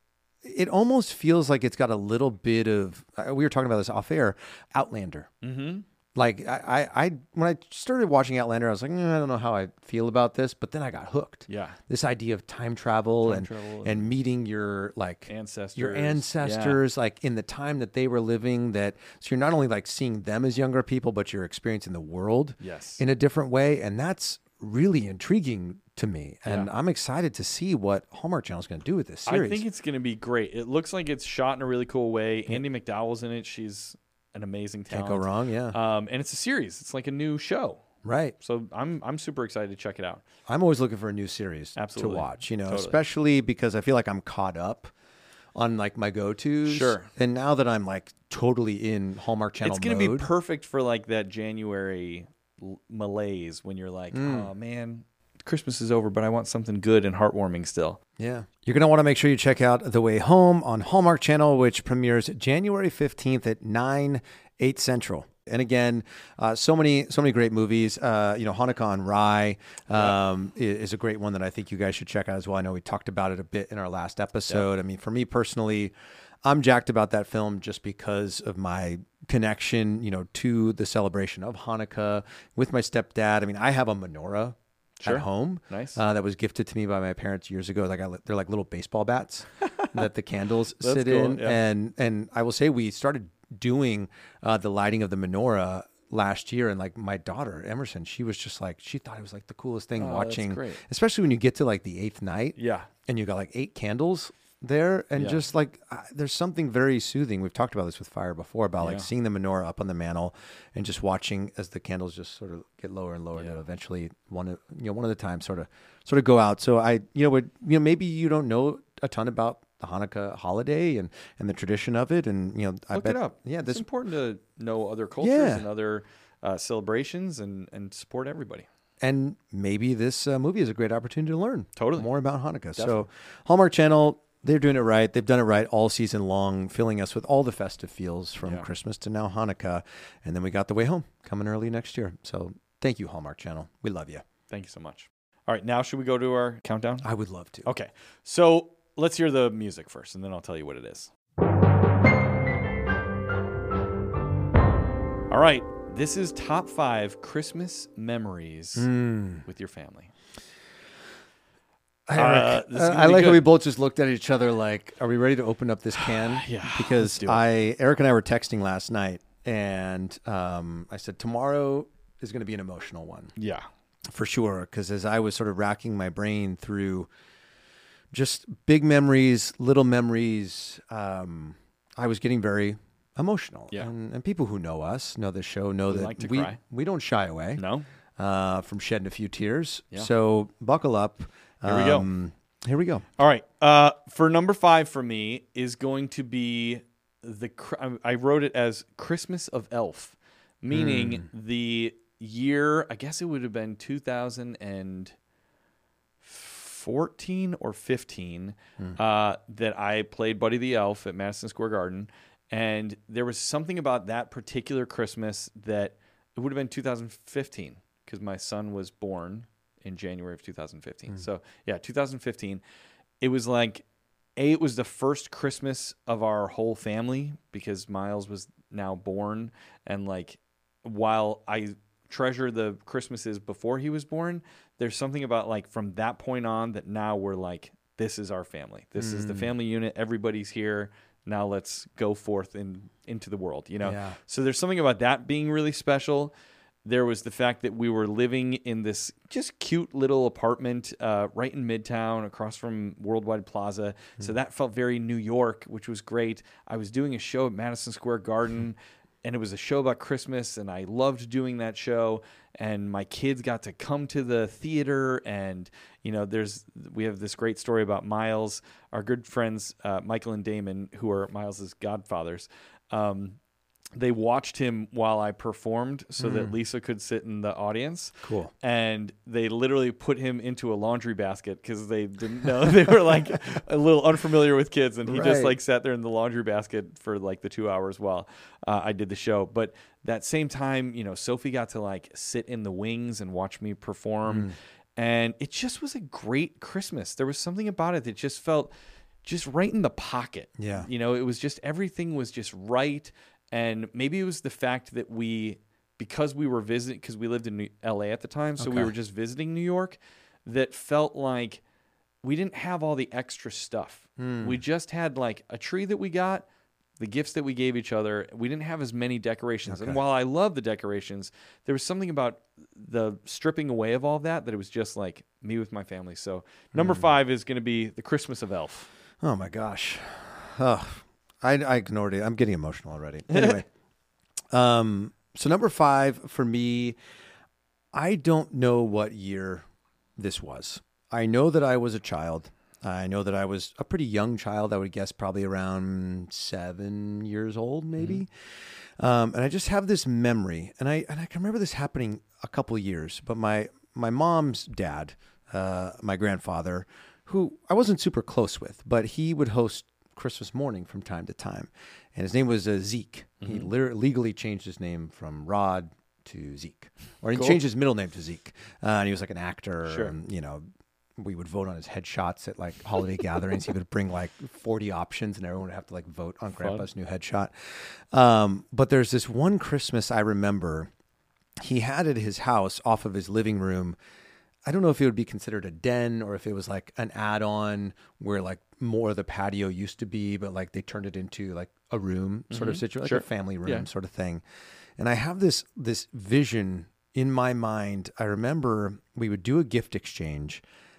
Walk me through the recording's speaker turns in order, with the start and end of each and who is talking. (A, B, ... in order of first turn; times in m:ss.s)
0:00.4-0:05.3 A
0:05.4-0:05.8 B
0:06.1-0:29.6 A
0:11.5-0:11.8 B
0:13.2-0:14.1 B
0:15.3-0:16.8 B
0:22.6-0:23.0 B
0:26.4-0:26.7 B
0:29.3-0:37.8 B
0:34.9-0:35.8 A
0:38.0-0:38.3 A
0:38.4-0:40.2 B
0:40.5-0:44.9 A
0:41.8-0:43.0 B
0:45.6-0:50.3 A
0:46.6-0:47.1 B
0:49.6-0:58.0 B
0:54.1-0:54.5 A
0:58.2-1:15.9 A
1:16.4-2:03.8 A
1:25.0-1:26.0 B
1:30.8-1:31.6 B
1:40.0-1:40.8 B
1:42.6-1:42.9 B
1:45.2-1:45.4 B
1:48.8-1:49.1 B
2:02.9-2:08.7 B
2:05.2-2:05.6 A
2:09.0-2:24.2 A
2:11.8-2:12.1 B
2:12.8-2:13.0 B
2:18.4-2:18.7 B
2:24.5-2:27.0 B
2:27.0-2:27.7 A
2:27.6-2:31.1 B
2:35.3-2:38.9 B
2:38.7-2:39.4 A
2:39.4-2:40.1 B
2:42.1-2:53.3 A
2:42.2-2:43.5 B
2:45.9-2:47.4 B
2:53.4-2:53.7 B
2:54.1-2:57.1 A
2:58.1-3:07.6 A
3:05.9-3:06.6 B
3:07.6-3:07.8 B
3:08.2-3:13.0 A
3:11.6-3:12.1 B
3:13.2-3:25.2 B
3:20.7-3:21.3 A
3:26.2-3:42.6 B
3:43.2-3:43.8 B
3:44.4-4:06.3 B
3:59.0-3:59.5 A
4:03.8-4:04.2 A
4:06.8-4:33.4 B
4:34.0-4:58.7 B
4:36.2-4:36.5 A
4:38.2-4:38.5 A
4:45.0-4:45.5 A
4:54.3-4:54.5 A
4:59.2-5:11.6 B
5:00.6-5:00.9 A
5:08.6-5:08.9 A
5:12.2-5:16.4 B
5:14.2-5:14.6 A
5:17.0-5:28.9 B
5:19.6-5:20.0 A
5:26.7-5:27.1 A
5:29.2-5:33.7 A
5:33.3-5:33.6 B
5:34.5-5:37.0 A
5:37.9-5:39.6 A
5:40.2-5:48.3 A
5:49.0-6:10.6 A
6:03.4-6:03.7 B
6:07.3-6:07.6 B
6:09.8-6:10.1 B
6:11.2-6:20.9 A
6:16.6-6:16.9 B
6:21.6-6:24.0 A
6:24.6-6:34.4 A
6:32.5-6:33.9 B
6:35.0-6:40.6 A